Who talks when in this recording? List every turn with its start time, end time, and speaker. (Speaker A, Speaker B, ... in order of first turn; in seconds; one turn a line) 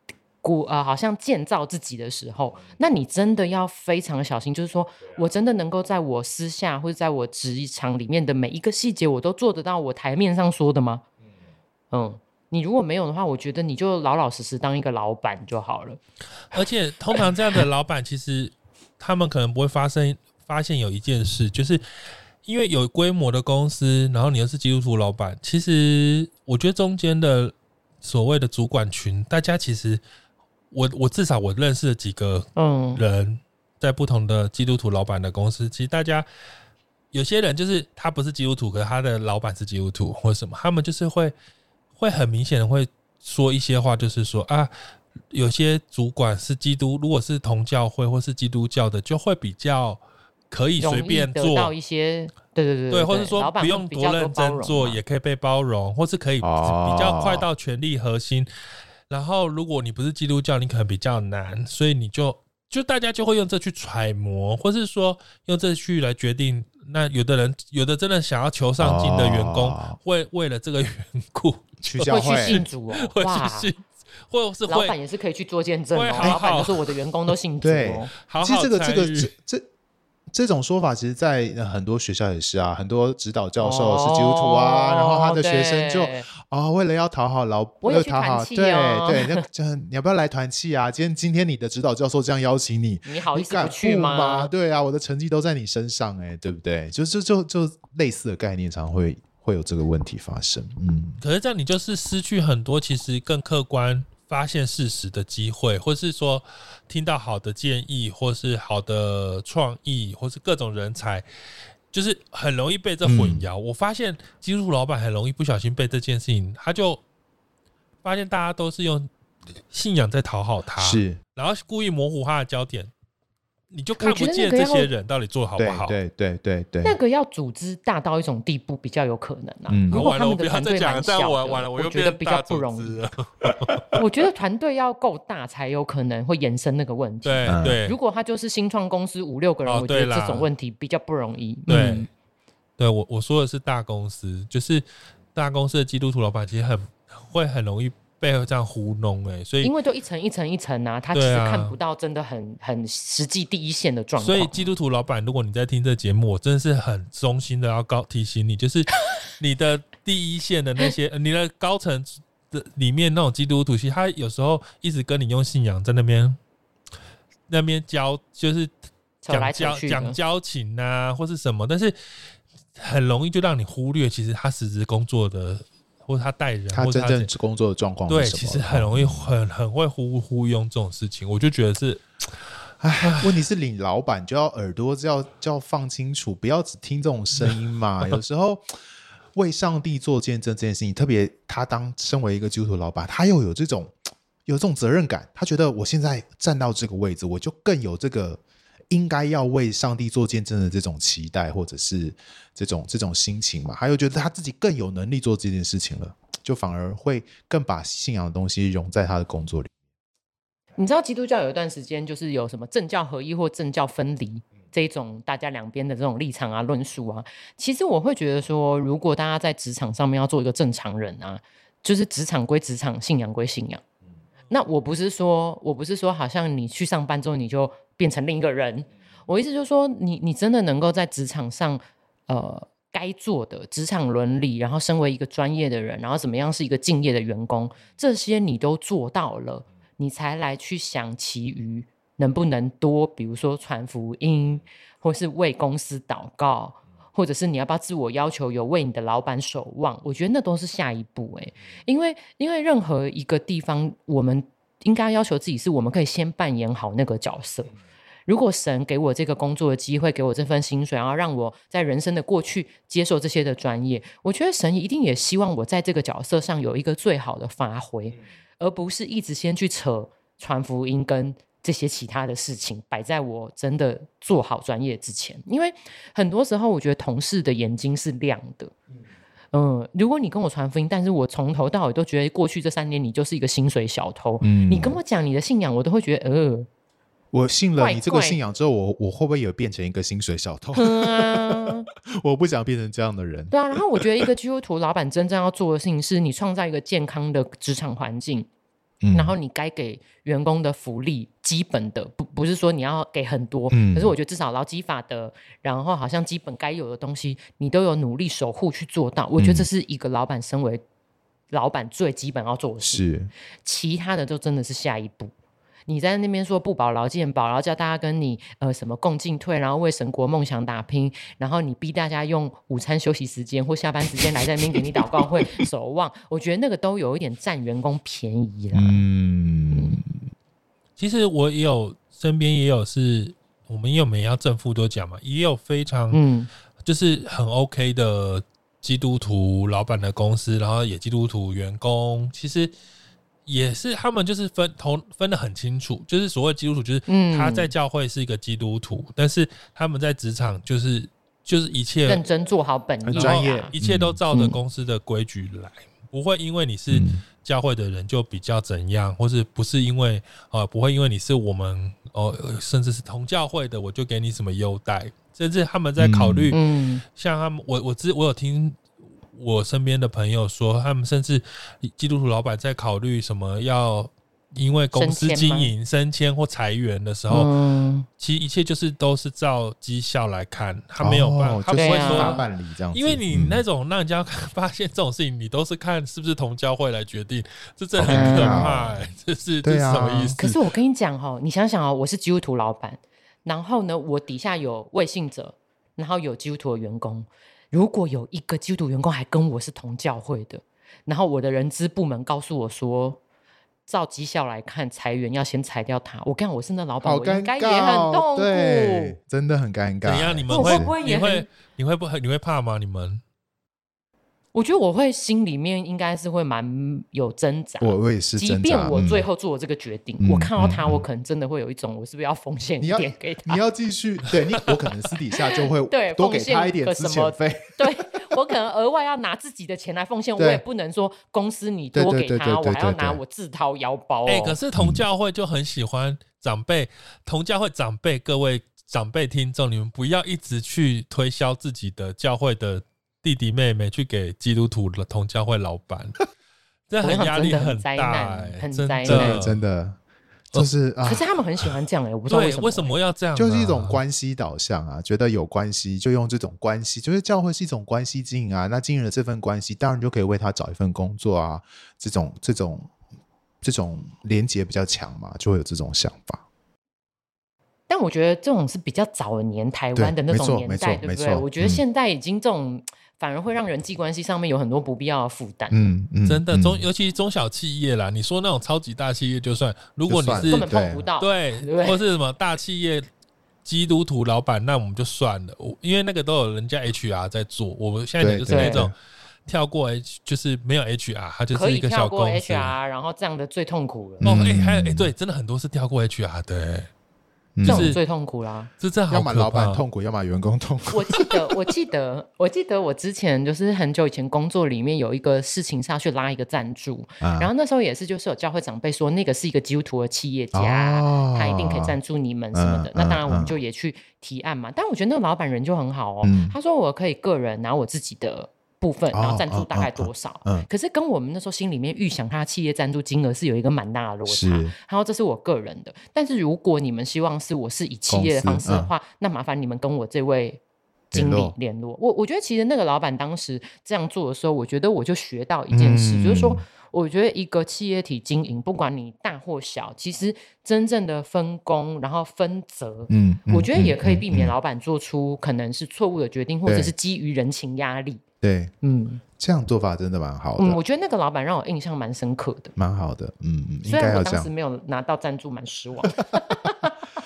Speaker A: 0.4-11.0
Speaker A: 11.9-16.0
Speaker B: 16.5-21.8
Speaker B: 22.4-30.0
Speaker B: 30.7-36.2
Speaker A: 32.5-33.0
Speaker B: 37.1-41.3
Speaker B: 42.0-44.7
Speaker B: 45.3-51.7
Speaker A: 50.8-55.0
Speaker B: 52.9-58.5
Speaker C: 56.4-57.5
Speaker B: 59.1-74.9
Speaker C: 68.8-70.0
Speaker C: 71.8-72.6
Speaker A: 72.1-73.7
Speaker A: 74.7-78.1
Speaker B: 75.9-76.9
Speaker C: 77.6-79.7
Speaker B: 78.2-79.3
Speaker C: 80.3-101.2
Speaker A: 83.6-86.3
Speaker A: 87.8-89.4
Speaker A: 93.0-94.5
Speaker B: 101.2-111.2
Speaker B: 111.9-117.0
Speaker C: 113.0-113.4
Speaker B: 118.0-119.1
Speaker B: 119.7-122.9
Speaker C: 120.8-121.2
Speaker B: 123.7-126.0
Speaker A: 124.0-124.9
Speaker C: 125.6-127.0
Speaker A: 126.8-133.0
Speaker C: 129.7-130.1
Speaker B: 129.9-134.0
Speaker A: 133.9-142.1
Speaker B: 137.2-138.0
Speaker C: 137.4-137.8
Speaker B: 139.6-140.5
Speaker B: 141.7-142.1
Speaker B: 142.8-144.8
Speaker B: 145.3-149.7
Speaker A: 149.6-154.6
Speaker B: 151.1-151.8
Speaker B: 154.2-166.4
Speaker B: 167.5-168.7
Speaker A: 169.2-170.2
Speaker B: 169.3-171.9
Speaker B: 172.8-177.3
Speaker C: 176.7-179.3
Speaker B: 178.1-182.0
Speaker C: 182.8-188.7
Speaker B: 183.0-183.3
Speaker C: 189.3-209.7
Speaker A: 210.8-223.8
Speaker A: 224.5-257.7
Speaker A: 258.2-278.7
Speaker A: 279.5-286.7
Speaker C: 284.4-285.0
Speaker C: 287.3-294.3
Speaker A: 287.8-288.4
Speaker A: 290.7-291.9
Speaker A: 293.5-298.5
Speaker C: 299.0-299.4
Speaker A: 299.1-310.8
Speaker C: 303.7-304.1
Speaker C: 309.4-309.7
Speaker A: 311.5-313.0
Speaker C: 312.8-313.3
Speaker A: 313.6-315.3
Speaker A: 315.9-329.0
Speaker C: 328.7-330.1
Speaker A: 329.7-330.0
Speaker B: 331.0-336.2
Speaker A: 336.1-336.5
Speaker B: 336.8-342.7
Speaker B: 343.4-352.2
Speaker A: 347.1-347.7
Speaker A: 352.1-353.7
Speaker C: 353.1-354.2
Speaker B: 353.1-368.8
Speaker C: 356.9-357.2
Speaker C: 366.0-366.5
Speaker A: 366.5-367.0
Speaker B: 369.3-377.5
Speaker A: 374.9-375.7
Speaker A: 377.3-378.1
Speaker B: 378.2-390.5
Speaker C: 381.0-383.6
Speaker A: 381.8-382.4
Speaker C: 388.0-388.9
Speaker A: 388.1-388.8
Speaker C: 389.6-390.5
Speaker A: 390.4-403.2
Speaker A: 403.9-409.1
Speaker C: 407.0-410.9
Speaker B: 410.0-413.2
Speaker A: 410.5-411.5
Speaker A: 414.5-423.6
Speaker C: 417.8-419.2
Speaker C: 420.2-421.0
Speaker C: 422.8-428.2
Speaker A: 425.3-434.6
Speaker C: 430.4-430.6
Speaker C: 431.9-433.2
Speaker B: 434.2-446.2
Speaker C: 434.7-435.0
Speaker B: 446.9-449.6
Speaker A: 447.0-449.4
Speaker C: 449.1-450.0
Speaker C: 450.5-451.2
Speaker A: 451.0-452.9
Speaker B: 452.3-454.0
Speaker C: 453.4-462.9
Speaker C: 463.6-466.4
Speaker A: 467.9-475.9
Speaker C: 469.9-471.8
Speaker C: 475.7-476.9
Speaker B: 476.2-480.6
Speaker C: 480.1-481.1
Speaker A: 480.5-482.0
Speaker B: 481.2-483.1
Speaker B: 483.6-488.9
Speaker C: 488.2-488.9
Speaker A: 488.5-488.8
Speaker B: 489.5-492.8
Speaker A: 491.5-494.3
Speaker C: 494.2-495.1
Speaker B: 494.2-496.9
Speaker C: 497.6-497.9
Speaker B: 497.6-498.0
Speaker A: 497.6-498.7
Speaker B: 498.8-499.8
Speaker C: 499.1-501.4
Speaker A: 500.9-530.6
Speaker C: 507.2-507.5
Speaker C: 510.5-511.9
Speaker C: 512.5-513.5
Speaker C: 516.2-516.5
Speaker C: 519.1-520.7
Speaker C: 524.2-524.7
Speaker C: 528.1-528.9
Speaker C: 531.1-531.5
Speaker A: 531.1-548.2
Speaker C: 535.7-536.6
Speaker C: 543.1-544.5
Speaker C: 546.6-546.9
Speaker C: 548.4-548.7
Speaker A: 548.8-549.2
Speaker C: 549.4-550.8
Speaker A: 550.6-552.7
Speaker C: 552.8-554.5
Speaker A: 553.8-557.0
Speaker C: 556.0-556.9